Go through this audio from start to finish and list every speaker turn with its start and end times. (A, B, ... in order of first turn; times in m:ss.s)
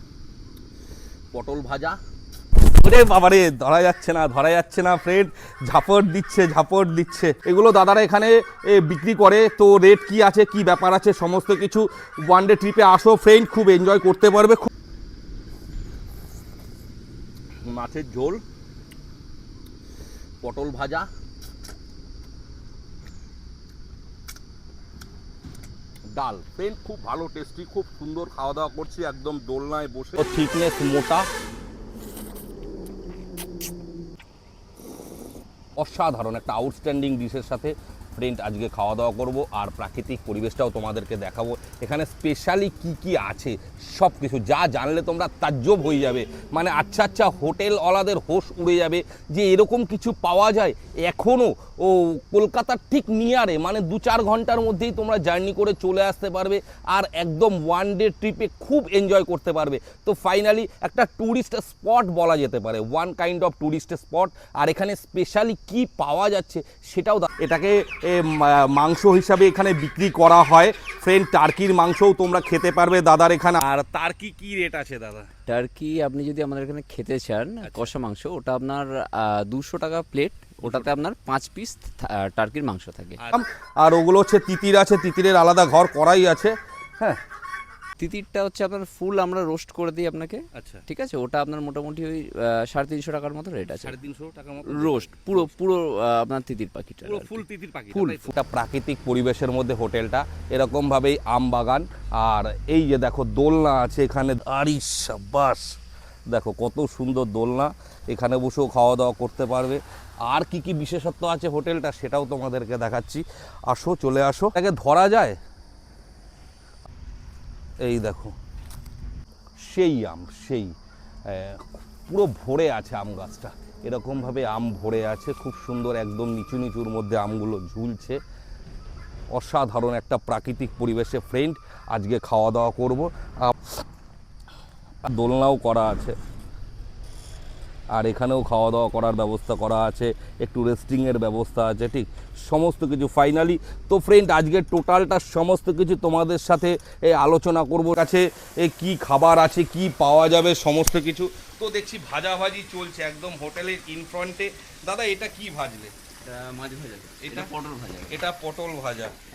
0:01.3-0:02.0 A
0:02.8-0:14.7 A
0:17.6-0:18.4 A
0:20.4-0:21.1 A
0:26.1-0:31.3 A
0:35.8-1:15.3 A
1:15.5-1:23.2 B
1:17.6-1:17.9 A
1:20.6-1:20.9 A
1:23.2-1:27.2 A
1:28.0-1:34.0 B
1:30.5-1:30.8 A
1:33.7-1:35.5 A
1:34.6-1:38.3 B
1:37.0-1:45.8 A
1:46.3-1:55.4 A
1:57.8-1:58.4 A
1:59.6-2:00.7 A
2:01.3-2:08.2 A
2:09.3-2:13.6 A
2:15.0-2:16.2 A
2:17.9-2:36.0 A
2:36.2-2:38.2 B
2:37.2-2:37.5 A
2:38.1-2:39.2 A